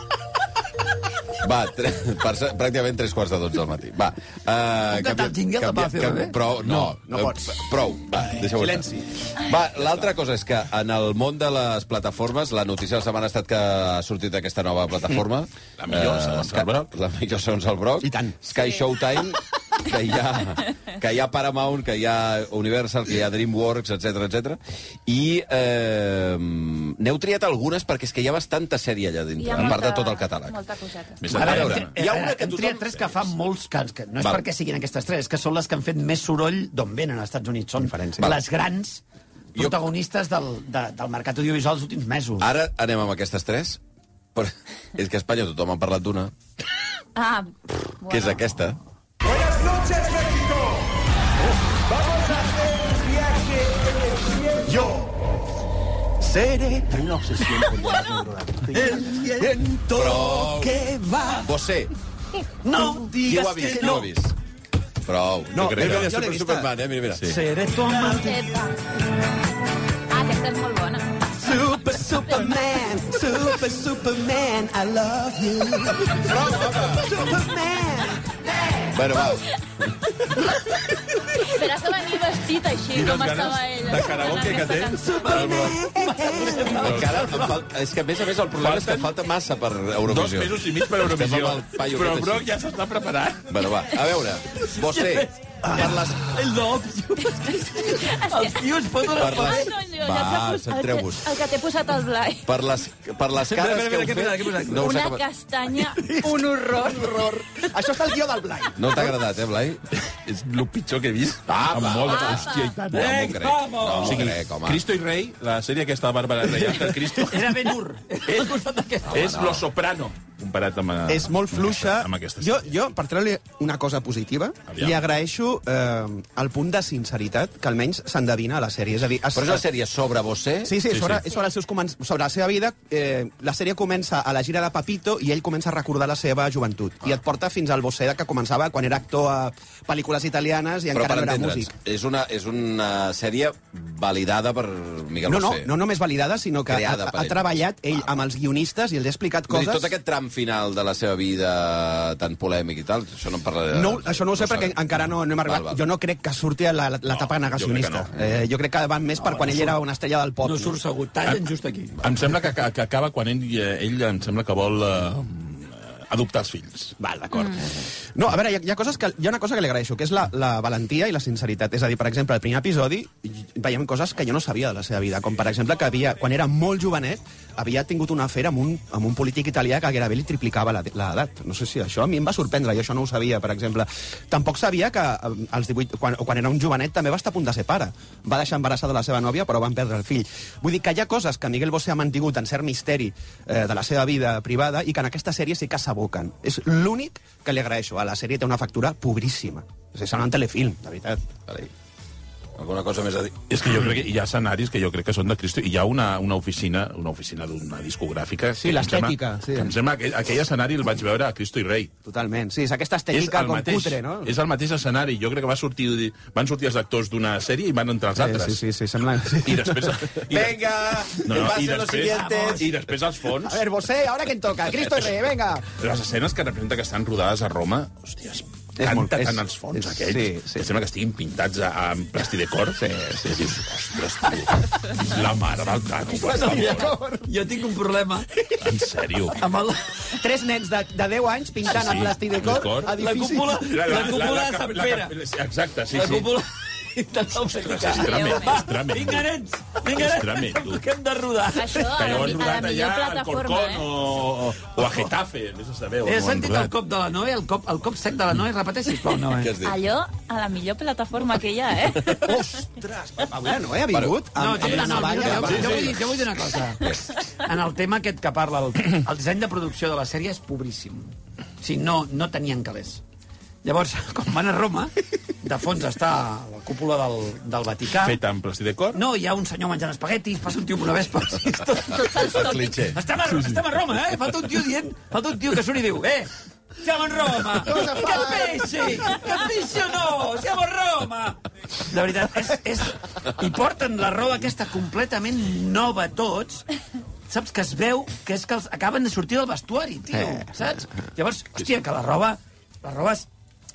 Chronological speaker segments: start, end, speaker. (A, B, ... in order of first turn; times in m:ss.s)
0:01.4-0:30.6 A
0:04.9-0:06.4 B
0:06.6-0:07.6 C
0:08.3-0:09.2 C
0:15.8-0:16.9 D
0:18.0-0:18.4 C
0:29.4-0:31.2 E
0:31.2-0:33.2 D
0:31.3-0:31.9 A
0:31.3-0:39.0 B
0:34.2-0:34.4 A
0:37.8-0:38.3 C
0:39.5-0:39.8 A
0:39.5-0:42.5 B
0:42.4-0:43.8 A
0:44.3-0:46.3 A
0:47.1-0:48.4 E
0:48.1-0:48.8 A
0:49.3-0:50.6 C
0:51.9-0:53.8 C
0:54.5-0:55.1 C
0:56.2-1:01.5 C
0:58.7-0:59.6 B
0:59.9-1:00.8 A
1:01.4-1:01.9 A
1:02.6-1:04.1 B
1:02.7-1:04.1 C
1:03.2-1:04.3 A
1:05.0-1:07.4 A
1:05.5-1:06.7 C
1:05.6-1:06.1 D
1:07.2-1:08.4 B
1:07.8-1:08.3 C
1:08.1-1:08.7 E
1:10.1-1:11.2 E
1:11.4-1:18.4 C
1:12.2-1:12.6 E
1:16.3-1:17.0 D
1:16.4-1:17.0 A
1:18.9-1:19.9 A
1:21.4-1:25.2 E
1:22.9-1:25.8 D
1:25.2-1:27.6 B
1:25.2-1:26.8 C
1:26.7-1:32.5 A
1:26.8-1:27.4 D
1:28.6-1:29.1 D
1:30.1-1:33.5 D
1:33.5-1:36.4 A
1:34.8-1:39.7 B
1:37.6-1:42.5 E
1:39.1-1:41.4 A
1:42.4-1:45.2 A
1:43.4-1:44.9 B
1:44.7-1:47.1 E
1:46.1-1:49.2 C
1:48.8-1:49.8 A
1:50.0-1:53.2 D
1:51.5-1:54.8 A
1:52.1-1:52.7 E
1:52.9-1:54.3 B
1:54.0-1:57.6 D
1:56.5-1:59.2 B
1:59.1-1:59.6 A
1:59.1-2:02.7 D
2:01.1-2:09.6 C
2:04.7-2:05.0 D
2:09.3-2:10.9 A
2:10.6-2:21.7 C
2:10.9-2:11.2 D
2:20.9-2:25.7 A
2:25.3-2:29.9 C
2:26.7-2:28.2 A
2:29.5-2:35.8 A
2:33.7-2:40.8 C
2:37.1-2:38.1 D
2:39.2-2:39.8 B
2:40.4-2:42.1 B
2:42.0-2:46.9 D
2:47.0-3:21.7 C
3:22.6-3:23.5 A
3:23.5-3:31.9 D
3:28.6-3:29.7 C
3:32.0-3:34.3 C
3:33.1-3:38.6 D
3:38.1-3:40.2 C
3:39.2-3:40.6 D
3:40.3-3:42.7 A
3:41.2-3:43.6 D
3:42.1-3:42.7 B
3:43.4-3:45.7 C
3:44.8-3:45.1 D
3:45.8-3:56.9 D
3:48.8-3:50.6 C
3:52.8-3:53.4 C
3:56.2-3:58.3 B
3:56.2-3:57.2 C
3:58.6-3:59.4 D
3:59.3-4:00.1 B
4:00.2-4:03.6 C
4:01.6-4:02.9 D
4:02.8-4:05.1 B
4:03.6-4:06.4 D
4:05.9-4:12.1 B
4:07.6-4:09.3 D
4:07.9-4:08.6 E
4:09.9-4:10.8 D
4:11.5-4:13.9 E
4:11.9-4:16.7 D
4:16.0-4:19.5 B
4:19.3-4:19.8 A
4:19.6-4:22.4 E
4:22.2-4:26.0 C
4:23.9-4:25.9 A
4:24.4-4:26.9 B
4:24.6-4:26.0 D
4:26.8-4:27.1 A
4:27.4-4:33.0 B
4:33.6-4:38.2 B
4:38.0-4:39.0 D
4:38.9-4:46.3 B
4:42.0-4:43.0 A
4:46.8-4:56.6 B
4:57.3-5:03.3 B